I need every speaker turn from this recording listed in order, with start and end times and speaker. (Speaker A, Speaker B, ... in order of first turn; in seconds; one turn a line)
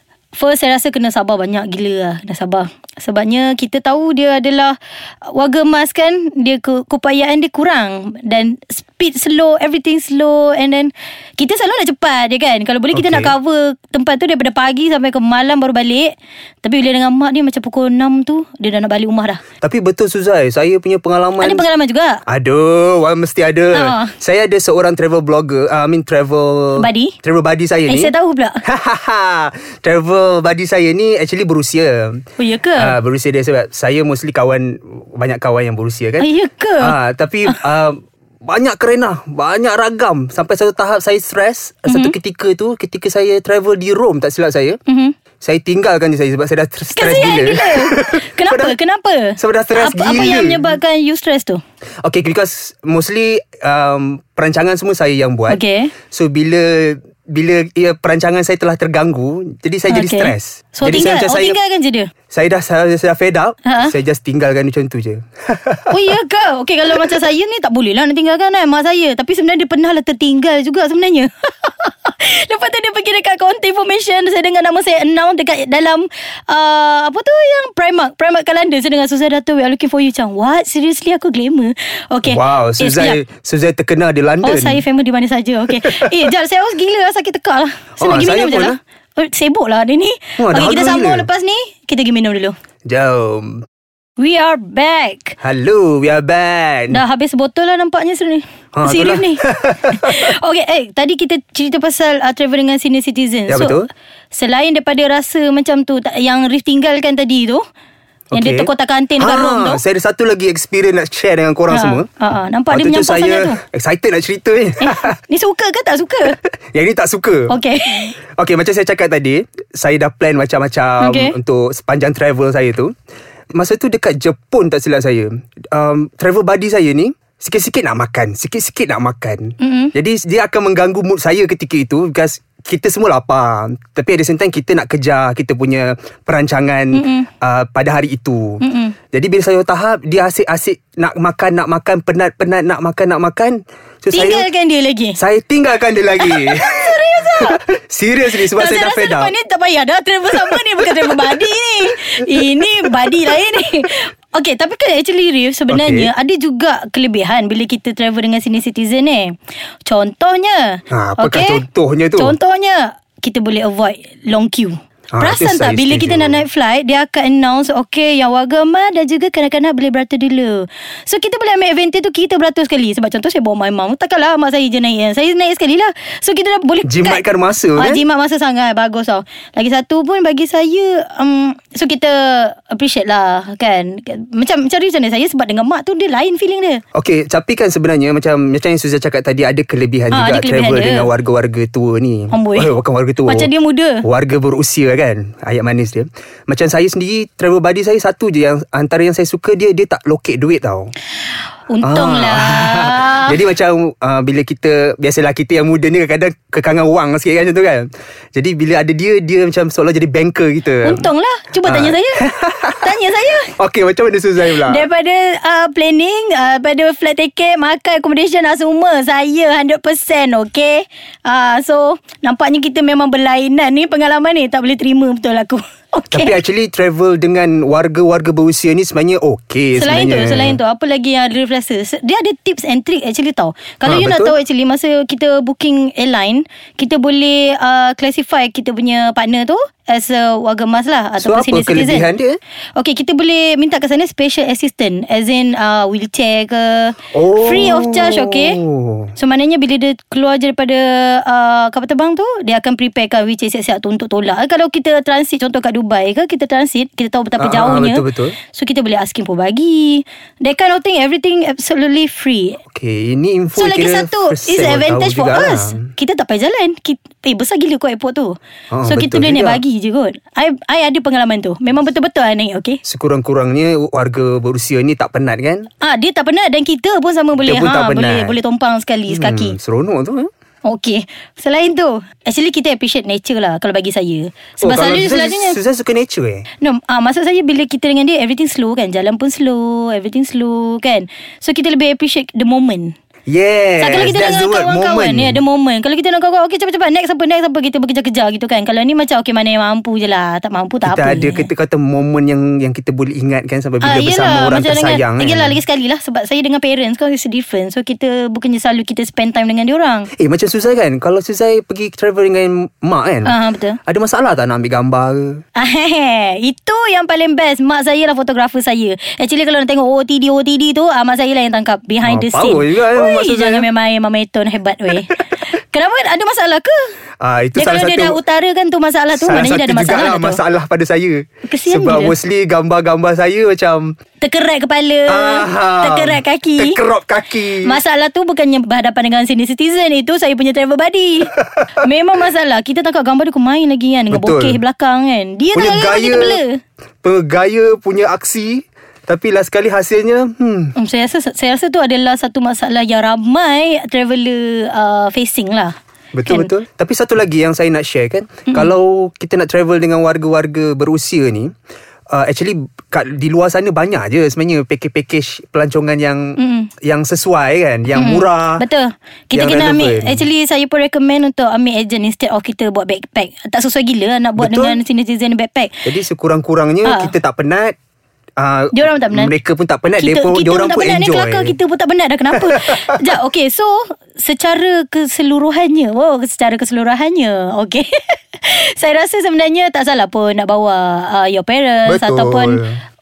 Speaker A: 0.3-19.4
Speaker B: 12.9-13.3
Speaker B: 19.6-21.6
Speaker A: 21.4-22.2
Speaker B: 22.3-28.1
Speaker A: 23.7-24.1
Speaker A: 26.8-27.2
Speaker A: 27.9-28.6
Speaker B: 28.6-32.2
Speaker A: 32.4-33.0
Speaker B: 32.8-36.3
Speaker A: 36.2-37.6
Speaker B: 36.8-44.8
Speaker A: 41.9-42.2
Speaker A: 44.9-45.2
Speaker B: 45.4-48.8
Speaker A: 46.9-51.6
Speaker B: 49.4-50.7
Speaker B: 52.0-61.6
Speaker A: 55.5-55.9
Speaker A: 59.9-62.1
Speaker B: 62.3-66.0
Speaker A: 63.7-63.9
Speaker A: 65.9-83.2
Speaker B: 82.2-84.8
Speaker A: 84.4-92.5
Speaker B: 85.8-86.3
Speaker B: 88.0-88.8
Speaker B: 90.4-91.3
Speaker B: 92.9-93.7
Speaker A: 94.2-95.4
Speaker B: 95.4-97.0
Speaker A: 96.9-107.6
Speaker B: 98.7-100.3
Speaker B: 103.5-103.9
Speaker B: 108.3-112.1
Speaker A: 108.3-109.8
Speaker A: 111.7-113.6
Speaker B: 112.7-115.1
Speaker A: 114.8-116.4
Speaker B: 116.3-117.5
Speaker A: 117.5-118.2
Speaker B: 118.4-122.9
Speaker A: 121.0-121.4
Speaker B: 123.5-144.5
Speaker A: 129.6-129.9
Speaker A: 136.9-137.3
Speaker A: 138.6-139.0
Speaker A: 144.1-145.2
Speaker B: 145.2-149.3
Speaker A: 146.2-147.6
Speaker A: 148.3-161.6
Speaker B: 150.3-151.4
Speaker B: 152.2-153.3
Speaker B: 155.7-156.1
Speaker B: 160.9-162.4
Speaker A: 162.2-186.8
Speaker B: 165.1-166.4
Speaker B: 176.8-178.0
Speaker B: 186.9-193.5
Speaker A: 190.1-191.1
Speaker A: 192.3-192.7
Speaker A: 193.3-194.1
Speaker B: 194.0-200.9
Speaker A: 201.7-203.4
Speaker B: 201.8-211.1
Speaker A: 210.8-212.3
Speaker B: 211.7-213.0
Speaker A: 212.8-213.5
Speaker B: 213.6-214.9
Speaker A: 214.4-226.4
Speaker B: 226.1-230.6
Speaker A: 229.8-242.1
Speaker B: 233.8-234.4
Speaker B: 241.2-242.4
Speaker A: 242.8-248.6
Speaker B: 247.1-249.1
Speaker A: 249.2-262.6
Speaker B: 257.4-258.4
Speaker B: 262.7-265.8
Speaker A: 263.6-272.8
Speaker B: 268.7-269.6
Speaker B: 272.9-275.7
Speaker A: 275.8-279.6
Speaker B: 277.4-278.4
Speaker B: 279.1-280.3
Speaker A: 280.6-285.6
Speaker B: 284.6-286.5
Speaker A: 286.6-292.9
Speaker B: 293.3-295.4
Speaker A: 293.8-301.5
Speaker B: 300.9-305.6
Speaker A: 303.8-310.1
Speaker B: 310.2-315.4
Speaker A: 313.2-313.8
Speaker A: 315.6-326.8
Speaker B: 322.0-323.7
Speaker B: 327.2-328.2
Speaker A: 327.6-330.4
Speaker B: 329.1-333.9
Speaker A: 331.4-332.2
Speaker A: 334.2-336.8
Speaker B: 335.1-337.8
Speaker A: 337.6-346.6
Speaker B: 344.1-344.6
Speaker B: 345.5-346.4
Speaker B: 347.0-350.8
Speaker A: 350.8-355.7
Speaker B: 356.1-361.5
Speaker A: 356.3-356.5
Speaker A: 358.5-358.7
Speaker B: 362.1-368.6
Speaker A: 366.4-366.7
Speaker A: 367.9-375.9
Speaker B: 369.3-370.2
Speaker B: 374.4-374.8
Speaker B: 375.9-377.8
Speaker A: 376.9-377.1
Speaker B: 378.4-381.6
Speaker A: 378.7-379.3
Speaker A: 380.0-392.6
Speaker B: 382.3-383.0
Speaker B: 391.9-392.8